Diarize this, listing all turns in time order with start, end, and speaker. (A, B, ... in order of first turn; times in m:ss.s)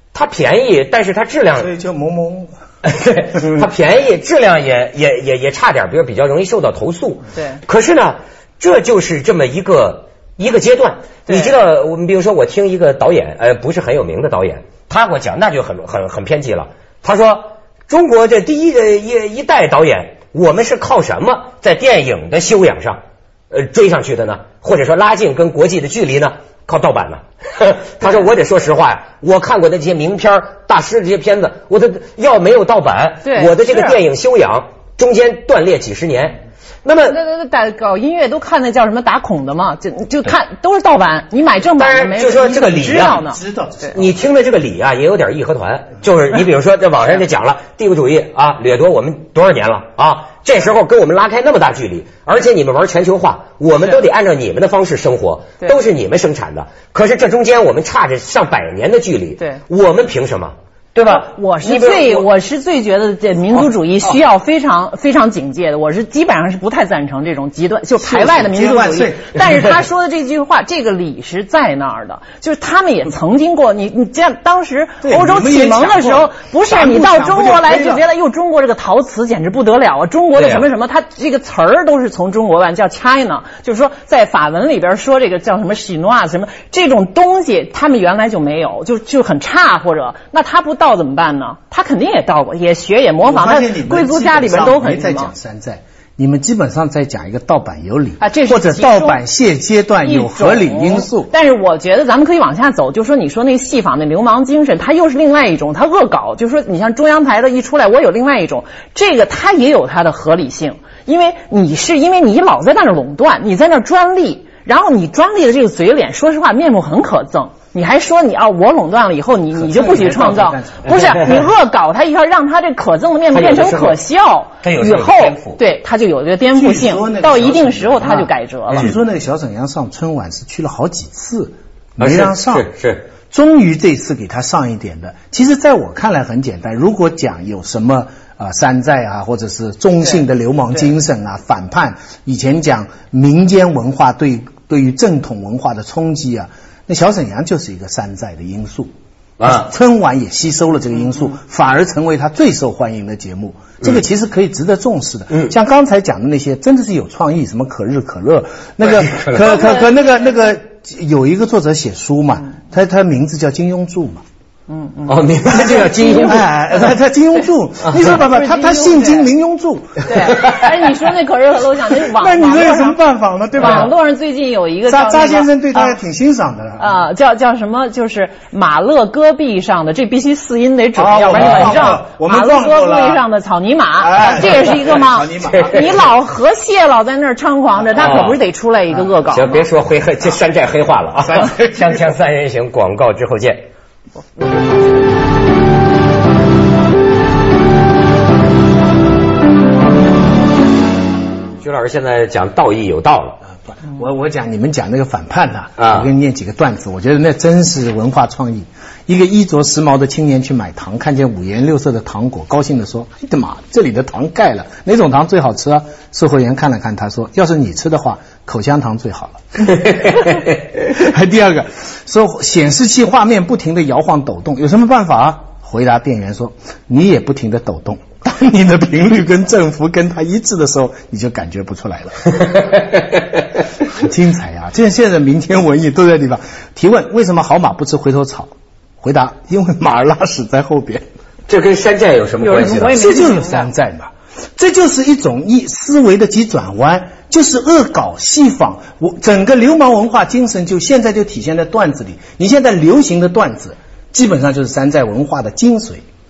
0:00.1-0:01.7 A
0:01.6-0:02.5 B
0:02.8-0:23.0 A
0:11.3-0:11.5 C
0:23.5-0:37.2 A
0:33.2-0:34.0 C
0:37.1-0:43.4 C
0:41.8-0:43.2 A
0:42.8-0:44.1 B
0:43.9-1:02.3 A
1:01.1-1:35.3 C
1:08.0-1:09.7 B
1:15.0-1:18.0 B
1:20.4-1:20.7 A
1:33.2-1:41.3 B
1:38.2-1:39.2 C
1:40.0-2:08.9 C
1:59.6-2:01.3 B
2:03.3-2:04.0 A
2:04.6-2:05.6 A
2:06.6-2:12.7 B
2:12.0-2:13.0 A
2:13.3-2:28.9 B
2:29.4-2:29.7 A
2:29.4-2:44.2 B
2:38.8-2:39.6 A
2:39.5-2:39.8 C
2:44.7-2:46.3 C
2:45.1-2:46.5 A
2:45.5-2:50.4 B
2:47.8-2:48.2 A
2:48.0-2:49.3 C
2:50.0-2:53.0 C
2:50.3-2:50.7 A
2:52.1-2:53.9 B
2:53.6-2:56.0 C
2:54.9-2:57.0 B
2:56.8-3:09.6 C
3:01.0-3:03.2 B
3:01.3-3:01.9 A
3:04.0-3:06.0 B
3:05.4-3:06.0 A
3:08.0-3:08.4 A
3:09.3-3:13.7 A
3:11.2-3:11.8 B
3:21.6-3:23.4 A
3:23.8-3:40.4 B
3:25.8-3:26.1 A
3:40.9-3:52.5 B
3:52.7-3:53.0 A
3:53.8-4:01.0 B
4:01.5-4:03.0 A
4:02.4-4:03.7 C
4:02.9-4:16.0 B